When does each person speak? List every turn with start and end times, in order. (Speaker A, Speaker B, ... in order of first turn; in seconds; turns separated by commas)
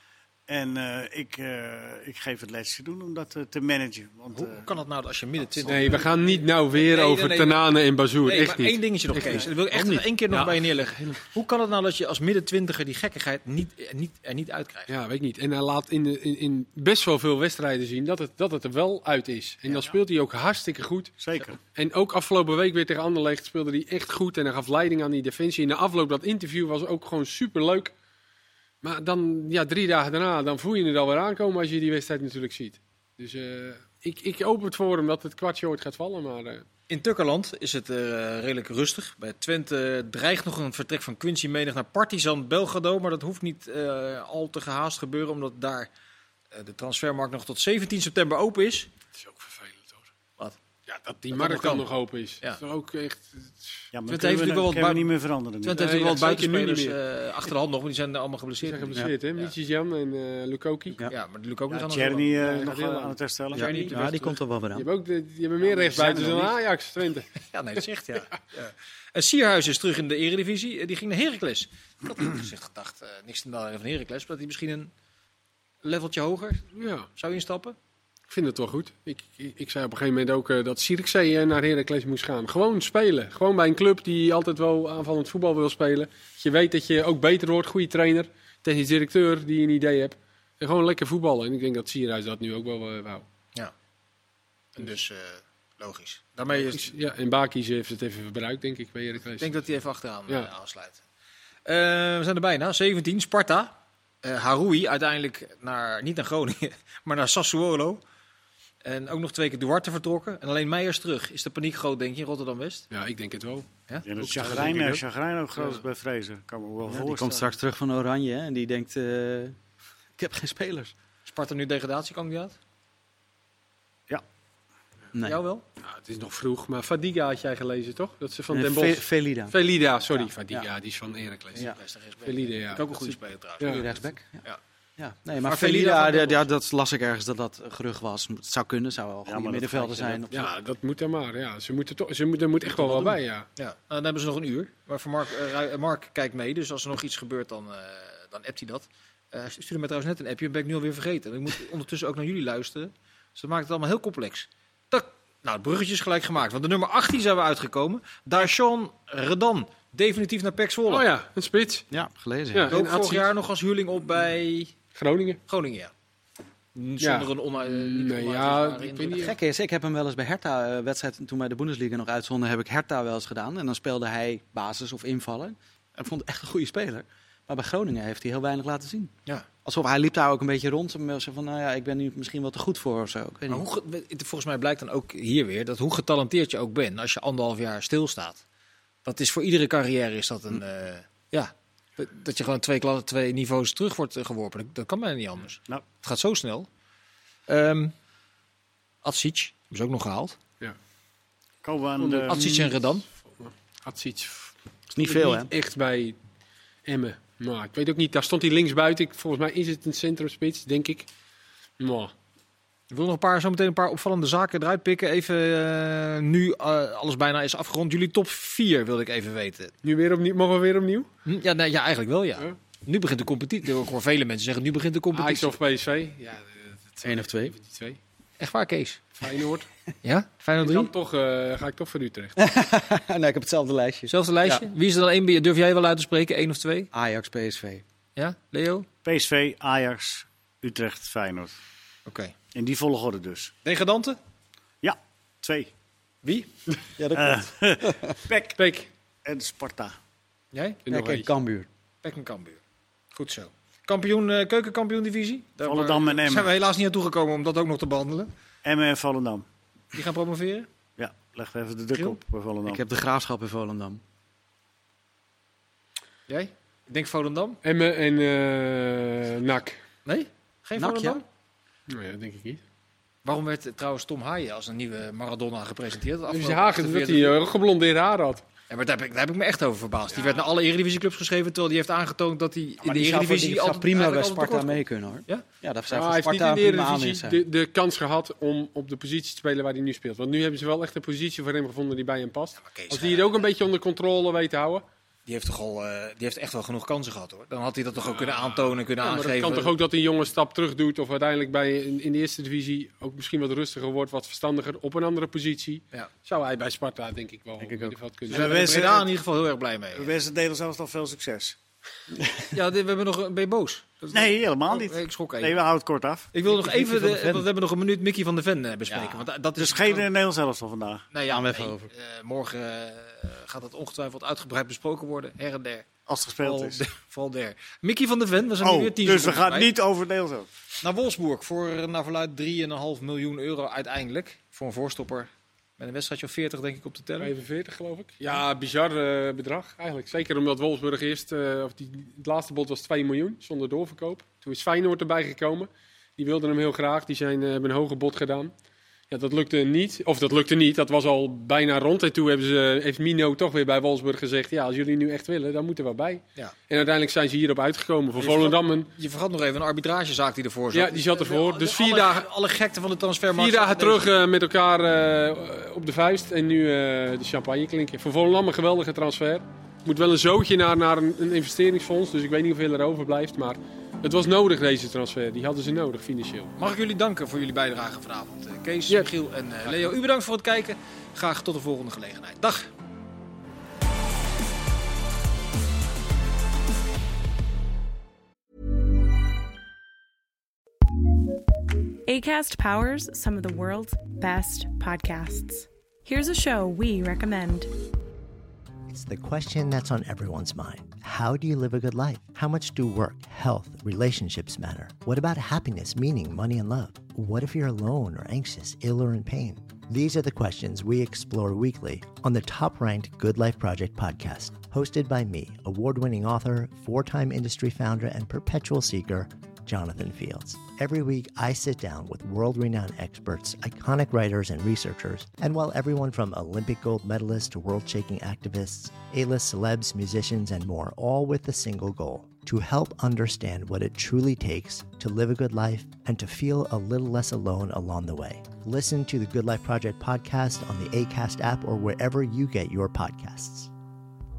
Speaker A: 0.5-4.7, Speaker B: 4.3-7.7, Speaker A: 5.5-5.9, Speaker C: 5.7-9.5, Speaker B: 8.2-14.9, Speaker D: 9.7-10.1, Speaker C: 14.9-27.9, Speaker A: 19.7-19.9, Speaker A: 21.2-21.6, Speaker C: 28.8-36.6, Speaker B: 36.9-45.9, Speaker B: 46.5-48.9, Speaker C: 49.1-50.1, Speaker C: 50.9-53.9, Speaker B: 51.3-51.9, Speaker A: 53.9-55.9, Speaker B: 54.1-59.5, Speaker C: 55.8-57.0, Speaker C: 58.6-61.0, Speaker B: 61.1-62.3, Speaker A: 61.7-63.8, Speaker C: 62.4-63.2, Speaker D: 63.5-64.9, Speaker B: 63.5-64.0, Speaker C: 63.7-67.3, Speaker A: 65.6-66.5, Speaker B: 67.5-74.9, Speaker B: 75.8-77.8, Speaker C: 76.7-77.1, Speaker C: 78.3-93.2, Speaker B: 94.8-96.9, Speaker C: 96.5-99.6, Speaker B: 99.4-101.0, Speaker B: 101.7-108.0, Speaker B: 108.8-112.9, Speaker C: 112.9-113.7, Speaker B: 113.9-114.8, Speaker A: 114.0-117.6, Speaker C: 114.2-115.0, Speaker D: 116.8-119.6, Speaker D: 120.2-120.9, Speaker B: 121.2-122.6, Speaker D: 125.1-125.4, Speaker B: 125.2-125.6, Speaker C: 125.8-131.7, Speaker D: 128.5-130.7, Speaker B: 131.5-134.6, Speaker C: 132.2-133.8, Speaker D: 133.6-134.4, Speaker D: 135.0-140.5, Speaker B: 135.4-136.5, Speaker A: 139.2-140.2, Speaker C: 140.3-143.4, Speaker B: 142.8-161.1, Speaker C: 160.9-161.9, Speaker D: 161.9-162.7, Speaker C: 162.5-163.3, Speaker B: 162.7-164.7, Speaker C: 164.9-165.4, Speaker B: 165.5-165.9, Speaker B: 166.7-169.3, Speaker C: 167.0-169.3, Speaker D: 169.1-179.1, Speaker D: 179.6-183.7, Speaker B: 183.5-188.4, Speaker B: 189.0-196.7, Speaker B: 197.5-197.9, Speaker B: 199.0-200.4, Speaker A: 201.6-202.7, Speaker C: 202.0-206.2, Speaker B: 202.3-203.0, Speaker D: 204.9-205.5, Speaker C: 206.8-211.1, Speaker C: 211.8-212.1, Speaker B: 212.9-219.7, Speaker C: 219.8-221.1, Speaker B: 221.2-225.5, Speaker C: 225.1-228.0, Speaker D: 227.0-227.5, Speaker B: 228.4-229.2, Speaker C: 229.2-229.7, Speaker B: 230.0-230.9, Speaker C: 230.6-232.3, Speaker D: 232.3-234.7, Speaker B: 234.1-236.9, Speaker D: 236.9-237.8, Speaker B: 238.2-238.8, Speaker A: 239.0-241.5, Speaker B: 242.1-242.3, Speaker A: 242.5-243.5, Speaker B: 243.6-244.2, Speaker A: 244.8-245.7, Speaker B: 246.2-246.5, Speaker D: 247.0-248.1, Speaker A: 247.1-248.6, Speaker C: 248.6-248.9, Speaker A: 249.2-249.9, Speaker B: 250.5-250.8, Speaker C: 250.8-251.3, Speaker D: 250.9-251.7, Speaker B: 252.0-252.6, Speaker B: 253.1-258.3, Speaker A: 255.6-256.5, Speaker A: 258.6-259.4, Speaker B: 259.9-260.7, Speaker A: 261.0-262.8, Speaker B: 261.9-262.2, Speaker D: 262.6-264.0, Speaker B: 266.3-267.6, Speaker C: 267.6-269.8, Speaker B: 270.0-271.2, Speaker D: 270.8-271.2, Speaker C: 271.9-272.6, Speaker B: 273.2-277.4, Speaker C: 276.3-278.4, Speaker B: 278.7-285.4, Speaker D: 282.8-287.4, Speaker C: 285.9-294.8, Speaker B: 292.6-293.3, Speaker B: 295.2-299.8, Speaker C: 298.1-308.9, Speaker D: 307.6-307.9, Speaker A: 308.3-309.1, Speaker B: 308.3-310.1, Speaker A: 309.9-311.6, Speaker D: 312.2-312.4, Speaker B: 312.5-315.6, Speaker A: 314.1-316.3, Speaker B: 316.3-320.1, Speaker D: 316.4-317.5, Speaker D: 318.9-319.2, Speaker A: 319.6-321.1, Speaker B: 321.1-325.9, Speaker D: 321.3-321.9, Speaker A: 326.1-326.8, Speaker B: 326.4-329.7, Speaker A: 328.6-330.5, Speaker B: 330.8-337.3, Speaker C: 337.2-348.5, Speaker C: 349.1-358.9, Speaker B: 358.2-364.1, Speaker C: 360.7-362.2, Speaker C: 363.3-376.5, Speaker B: 376.6-382.7, Speaker E: 392.1-397.7, Speaker F: 398.9-443.7